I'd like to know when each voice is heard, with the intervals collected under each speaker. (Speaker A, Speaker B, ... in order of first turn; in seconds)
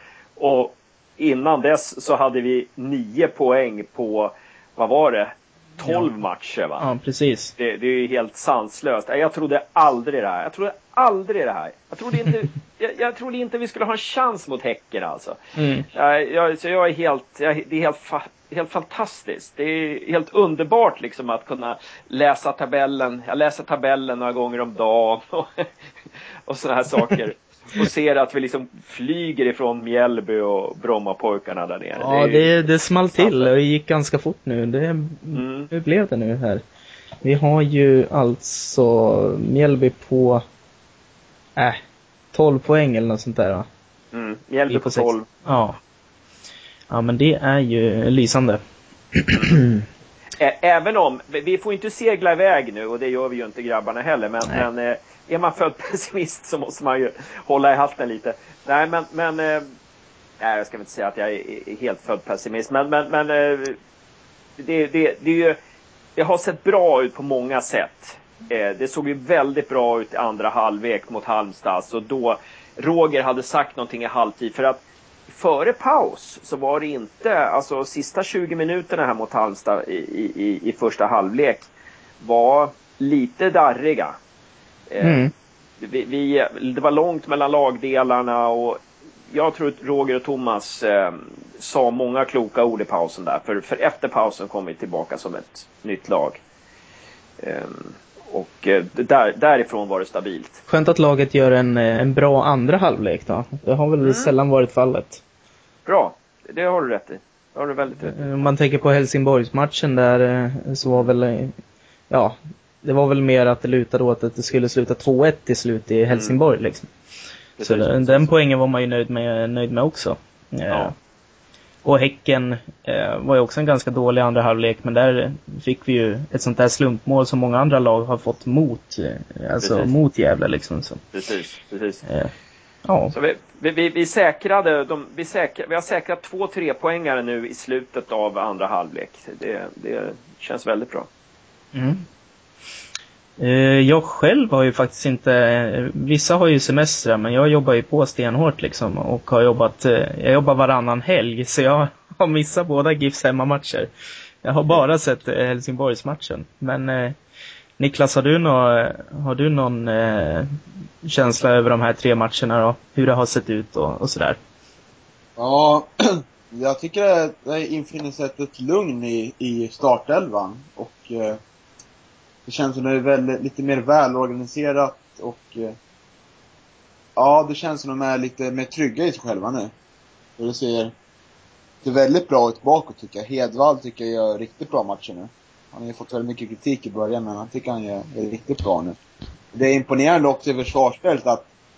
Speaker A: 0.4-6.8, 7.6-15.4, 15.9-25.7, 26.5-32.5, 33.1-33.5, 35.3-35.7, 44.1-45.2, 50.4-59.7, 60.4-63.8, 64.6-65.6, 66.2-81.7, 82.2-84.1, 84.9-85.2, 85.8-96.4, 97.4-100.6, 104.0-104.3, 105.8-108.5, 116.1-116.4, 117.6-118.3, 129.6-129.9, 131.1-132.0, 133.1-141.1
Speaker B: 6.8-7.5, 15.6-15.8, 32.0-36.6, 37.2-40.4, 42.3-43.6, 44.7-45.8, 46.9-48.6, 49.1-49.8, 85.0-85.3, 100.7-105.2, 108.0-111.5, 112.1-116.9, 117.6-120.9, 121.8-131.0, 132.1-132.3, 132.8-133.1, 141.7-142.0, 143.4-153.9, 154.4-157.2, 157.8-160.5, 161.0-164.4
Speaker C: 165.4-171.4, 172.4-175.8, 177.2-179.7, 180.4-180.9, 181.8-189.0, 189.5-191.5